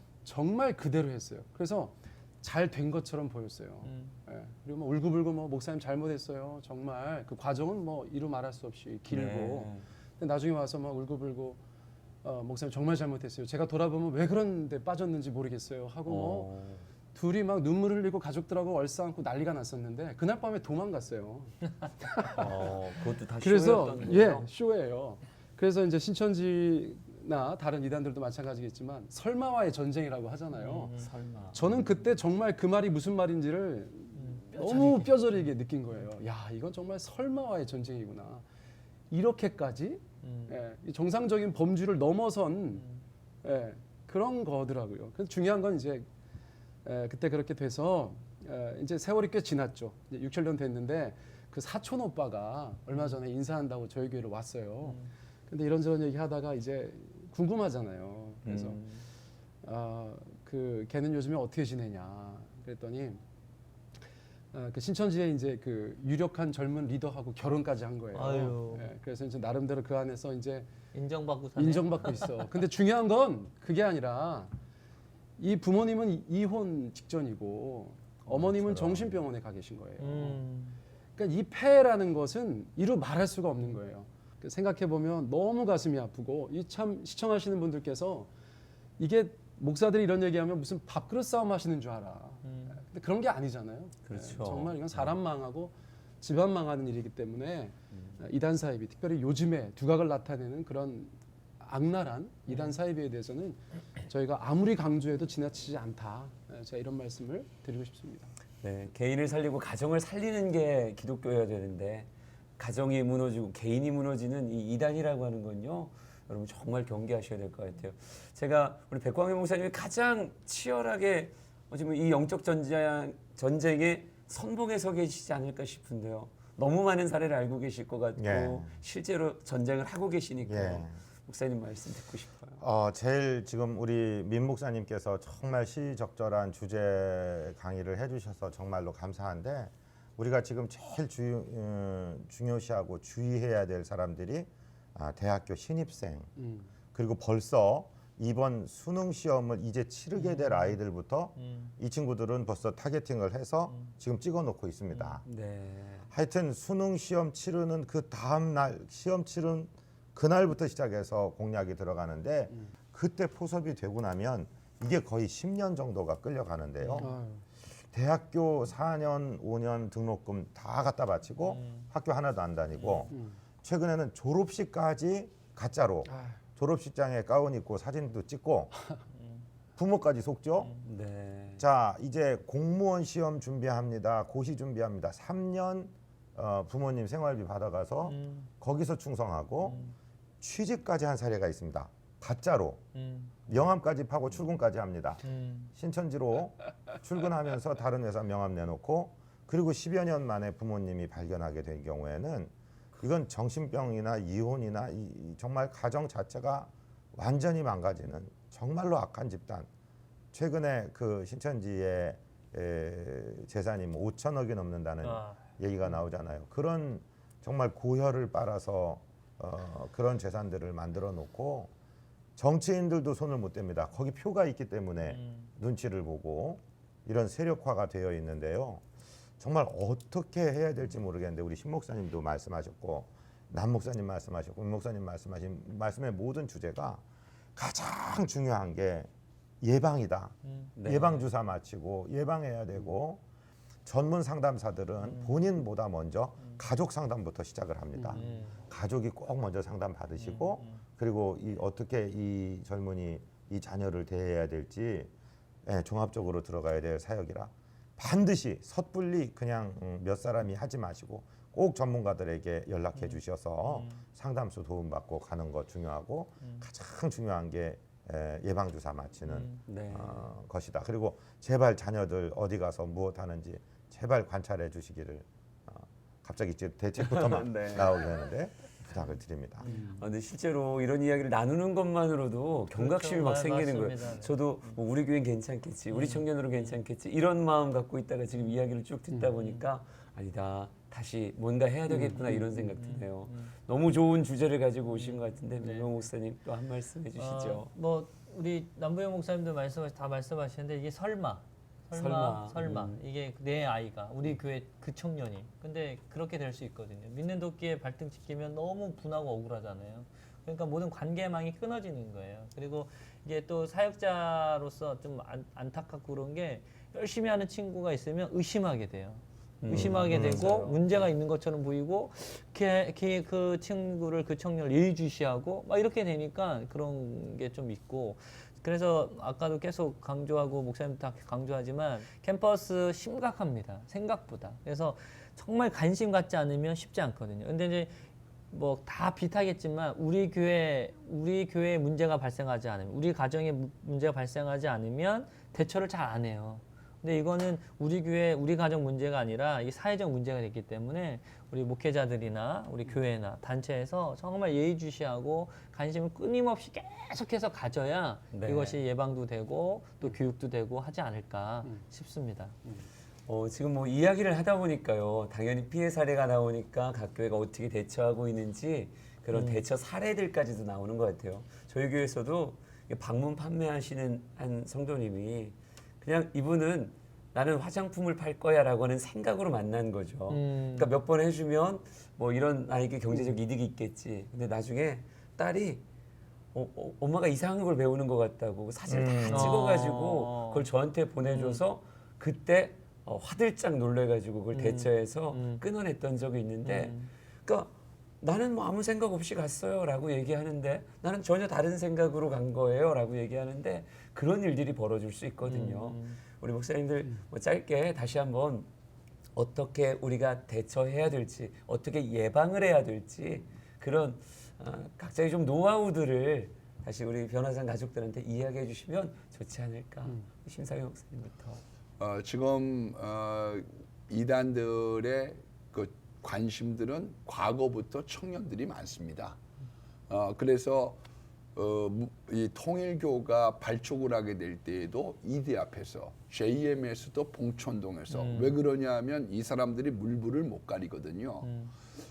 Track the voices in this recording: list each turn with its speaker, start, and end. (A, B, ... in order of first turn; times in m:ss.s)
0:00.2-0:11.6 A
0:03.8-0:04.2 B
0:09.1-0:09.8 C
0:12.2-0:16.5 A
0:16.0-0:16.8 C
0:17.1-0:22.7 A
0:22.4-0:24.5 C
0:23.4-0:31.0 A
0:30.6-0:31.1 B
0:30.9-0:31.9 C
0:31.5-0:38.4 A
0:34.2-0:35.5 B
0:39.1-0:42.8 A
0:40.2-0:40.6 B
0:42.8-0:43.0 B
0:43.4-0:46.1 A
0:46.8-0:58.8 A
0:54.8-0:55.1 B
0:58.4-0:59.0 C
0:59.6-1:03.2 A
1:04.5-1:10.7 A
1:08.1-1:08.9 B
1:10.9-1:12.4 B
1:11.6-1:14.5 A
1:15.4-1:20.4 A
1:18.3-1:19.2 C
1:20.0-1:20.8 B
1:21.2-1:28.3 A
1:29.0-1:48.3 A
1:32.4-1:32.8 B
1:34.1-1:35.2 C
1:48.6-2:12.6 C
2:08.2-2:08.7 D
2:10.5-2:10.9 D
2:12.6-2:26.3 D
2:26.4-2:26.7 A
2:26.9-2:35.2 D
2:30.2-2:30.8 B
2:31.4-2:31.7 B
2:35.2-2:36.1 C
2:36.1-2:47.1 D
2:47.0-2:47.4 A
2:47.9-2:58.7 D
2:51.5-2:51.9 B
2:52.8-2:53.1 B
2:56.1-2:56.4 A
2:59.8-3:00.8 D
3:00.8-3:01.6 C
3:01.6-3:09.9 D
3:08.1-3:08.5 B
3:09.6-3:09.9 B
3:10.4-3:12.8 D
3:13.0-3:13.4 B
3:13.5-3:29.7 D
3:15.3-3:15.7 B
3:30.3-3:41.7 D
3:35.0-3:35.4 B
3:42.4-3:48.8 D
3:45.1-3:45.5 B
3:49.4-3:57.0 D
3:57.6-3:59.1 D
3:59.6-4:03.2 D
4:00.5-4:00.7 B
4:00.8-4:01.2 C
4:03.9-4:15.1 D
4:05.0-4:05.4 B
4:08.1-4:08.6 B
4:10.2-4:10.8 B
4:15.6-4:39.7 D
4:23.0-4:24.0 B
4:29.3-4:29.6 B
4:29.7-4:30.2 C
4:37.0-4:37.9 C
4:39.6-4:40.0 B
4:40.0-4:57.7 C
4:42.7-4:44.7 B
4:45.9-4:46.7 B
4:51.9-4:52.7 A
4:52.8-4:53.5 B
4:55.0-4:56.0 B
4:57.2-5:38.0 B
5:02.0-5:03.0 C
5:19.6-5:21.0 C
5:38.5-6:02.6 B
5:58.3-5:58.8 C
6:03.3-6:25.8 C
6:09.3-6:09.6 B
6:20.3-6:20.9 B
6:26.5-6:48.7 C
6:28.9-6:29.6 D
6:29.3-6:30.6 B
6:31.3-6:31.6 B
6:34.5-6:35.6 B
6:36.6-6:37.1 B
6:45.4-6:46.2 B
6:49.4-7:01.6 C
7:02.0-7:09.4 E
7:10.1-7:11.0 E
7:11.6-7:21.5 E
7:18.1-7:18.6 B
7:21.4-7:21.7 B